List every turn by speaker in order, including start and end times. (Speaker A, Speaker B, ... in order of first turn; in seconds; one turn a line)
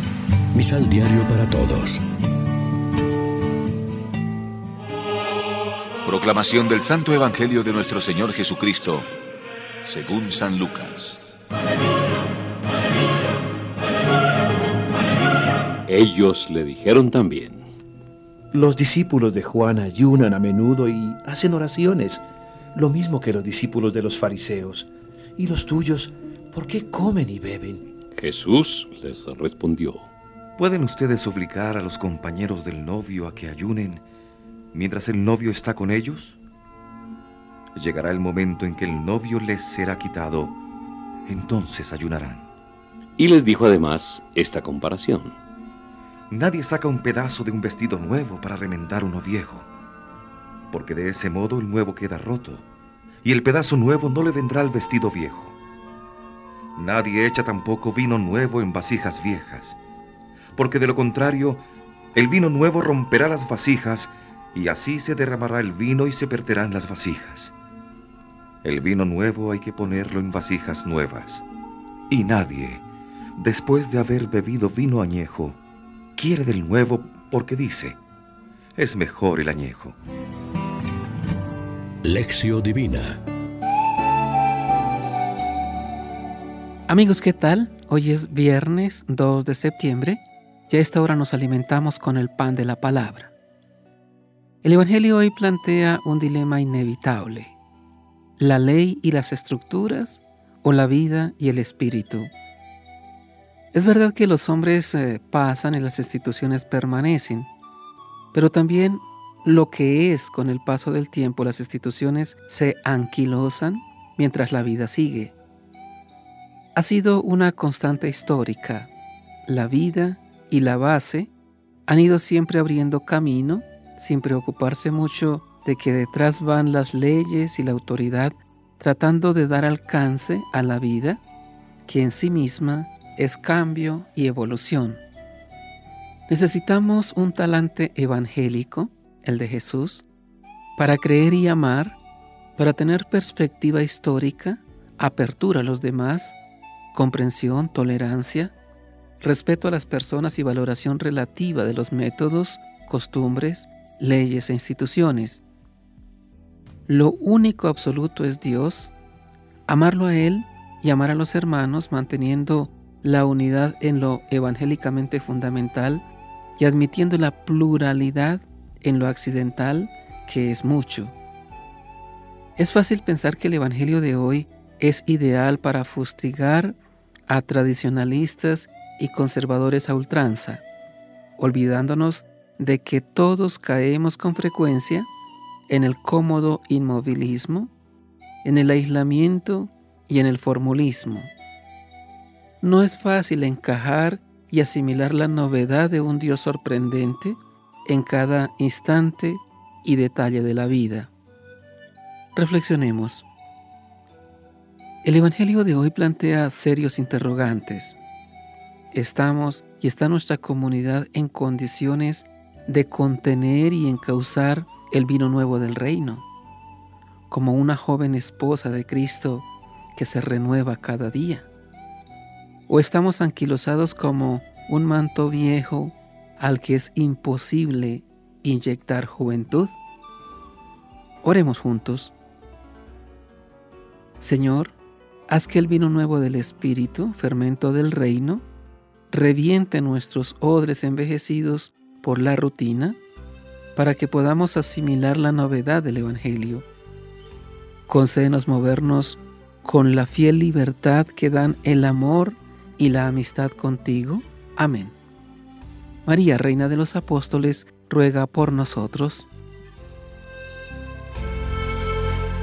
Speaker A: 0.5-2.0
Speaker B: 6.0-9.1
Speaker B: 9.8-11.2
Speaker C: 15.9-17.6
Speaker D: 18.5-22.2
Speaker D: 22.7-27.9
Speaker C: 28.2-30.1
Speaker E: 30.6-34.0
Speaker E: 34.7-36.4
Speaker E: 37.8-40.6
Speaker E: 41.3-42.5
Speaker C: 43.2-45.3
Speaker E: 46.3-49.7
Speaker E: 50.7-52.6
Speaker E: 53.2-55.5
Speaker E: 56.8-59.8
Speaker E: 60.6-61.6
Speaker E: 62.1-67.5
Speaker E: 68.6-71.4
Speaker E: 72.1-72.8
Speaker E: 73.4-75.6
Speaker E: 76.2-78.0
Speaker E: 78.8-80.0
Speaker A: 82.0-83.2
Speaker F: 86.9-93.3
Speaker F: 94.6-97.5
Speaker F: 98.4-102.3
Speaker F: 103.7-107.5
Speaker F: 108.3-115.3
Speaker F: 116.7-118.9
Speaker F: 119.5-121.3
Speaker F: 121.9-131.2
Speaker F: 131.9-135.0
Speaker F: 136.3-140.1
Speaker F: 140.8-142.0
Speaker F: 142.6-146.4
Speaker F: 146.9-148.5
Speaker F: 149.2-155.4
Speaker F: 156.9-158.9
Speaker F: 159.7-166.0
Speaker F: 166.6-171.1
Speaker F: 172.6-176.8
Speaker F: 177.3-180.6
Speaker F: 181.4-185.1
Speaker F: 185.7-187.7
Speaker F: 188.4-191.3
Speaker F: 192.6-201.1
Speaker F: 202.3-203.2
Speaker F: 205.0-208.0
Speaker F: 208.9-216.2
Speaker F: 217.3-221.5
Speaker F: 222.7-229.7
Speaker F: 231.2-232.1
Speaker F: 234.2-234.7
Speaker F: 235.3-238.4
Speaker F: 239.1-243.0
Speaker F: 243.7-246.7
Speaker F: 247.9-254.9
Speaker F: 256.1-259.3